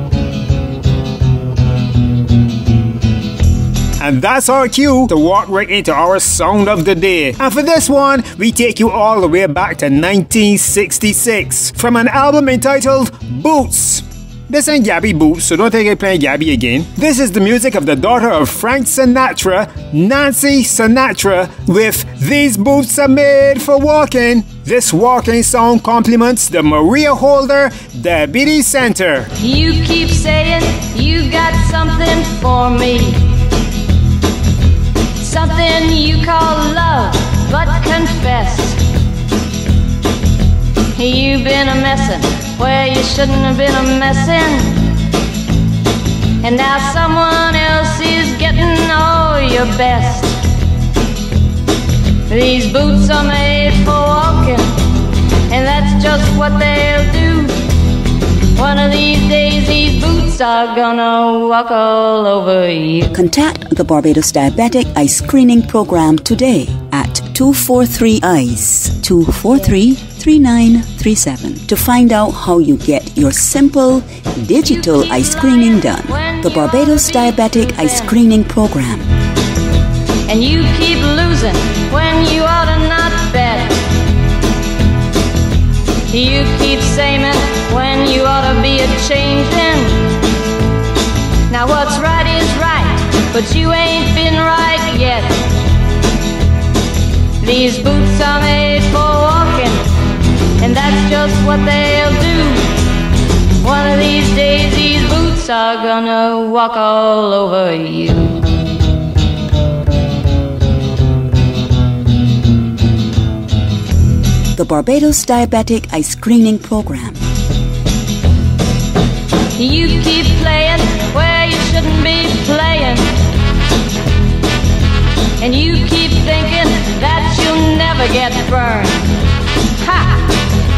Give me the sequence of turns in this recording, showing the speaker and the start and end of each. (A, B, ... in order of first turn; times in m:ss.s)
0:04.0-0:29.3 A
0:29.4-0:33.2 B
0:35.2-0:38.8 B
0:41.0-0:44.8 B
0:46.4-0:50.4 B
0:52.3-0:54.7 B
0:55.5-0:57.6 B
0:58.6-1:03.1 B
1:03.1-1:19.1 C
1:14.5-1:18.2 B
1:20.3-1:23.8 B
1:26.1-1:30.0 B
1:31.5-1:35.4 B
1:37.4-1:39.8 B
1:40.6-1:42.7 B
1:43.6-1:48.4 B
1:54.5-1:57.2 C
1:59.6-2:03.1 B
2:05.4-2:09.1 B
2:09.8-2:10.3 B